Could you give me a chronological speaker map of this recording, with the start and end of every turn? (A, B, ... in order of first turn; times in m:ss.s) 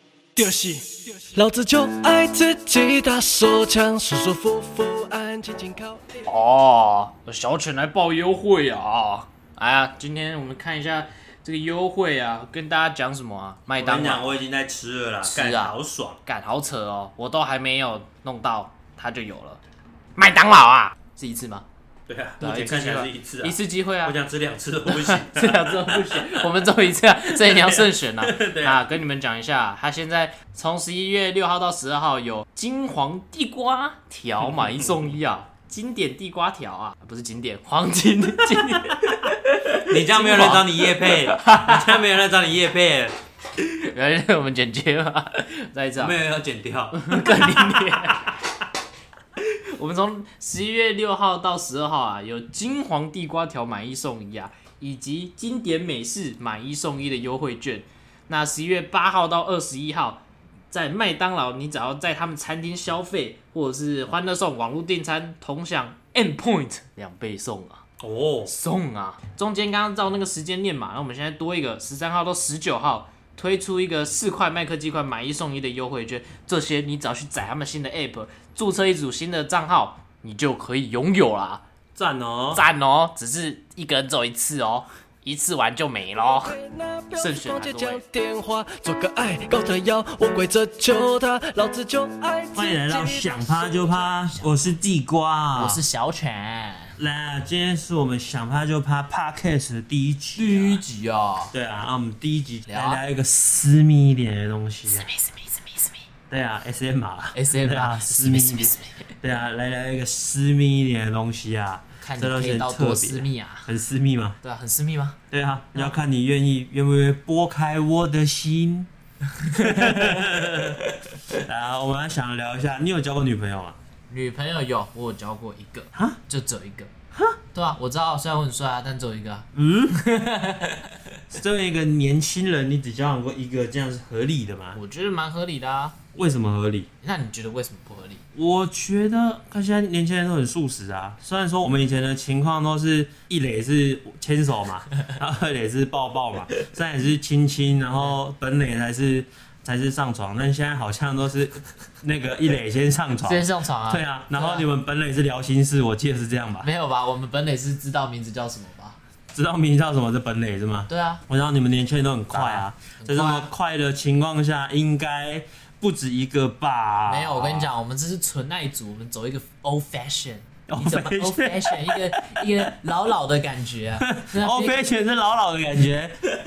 0:00.4-0:06.2 A
0:06.2-0:14.4 B
0:13.8-0:16.2 C
0:15.2-0:19.6 B
0:20.2-0:21.6 B
0:22.1-0:26.5 C
0:22.4-0:24.2 B
0:24.8-0:42.0 B
0:27.3-0:28.8 C
0:38.5-0:39.1 C
0:39.8-0:43.1 C
0:43.6-0:46.2 B
0:46.0-0:48.3 C
0:46.9-0:48.3 B
0:49.4-1:07.8 B
1:08.0-1:08.5 C
1:08.4-1:21.6 B
1:22.0-1:22.6 C
1:22.5-1:26.6 B
1:26.3-1:34.0 A
1:27.1-1:28.0 B
1:32.5-1:35.8 C
1:35.5-1:37.0 B
1:37.0-1:40.8 C
1:40.4-1:41.5 B
1:41.5-1:45.1 C
1:42.7-1:43.0 B
1:44.9-1:46.0 B
1:46.3-1:54.4 C
1:47.3-1:49.1 B
1:52.0-1:53.7 B
1:54.4-1:55.2 B
1:55.3-1:58.9 C
1:59.3-2:01.0 B
1:59.5-2:03.8 C
2:04.1-2:06.9 B
2:07.5-2:11.0 B
2:09.5-2:10.0 C
2:11.3-2:14.8 C
2:14.7-2:16.0 B
2:16.1-2:16.9 C
2:17.0-2:18.2 B
2:18.3-2:36.7 C
2:33.2-2:34.6 B
2:36.6-2:39.0 B
2:39.3-2:47.7 C
2:40.9-2:41.2 B
2:42.3-2:43.5 B
2:47.1-2:54.9 B
2:50.7-2:52.7 C
2:54.0-2:56.2 C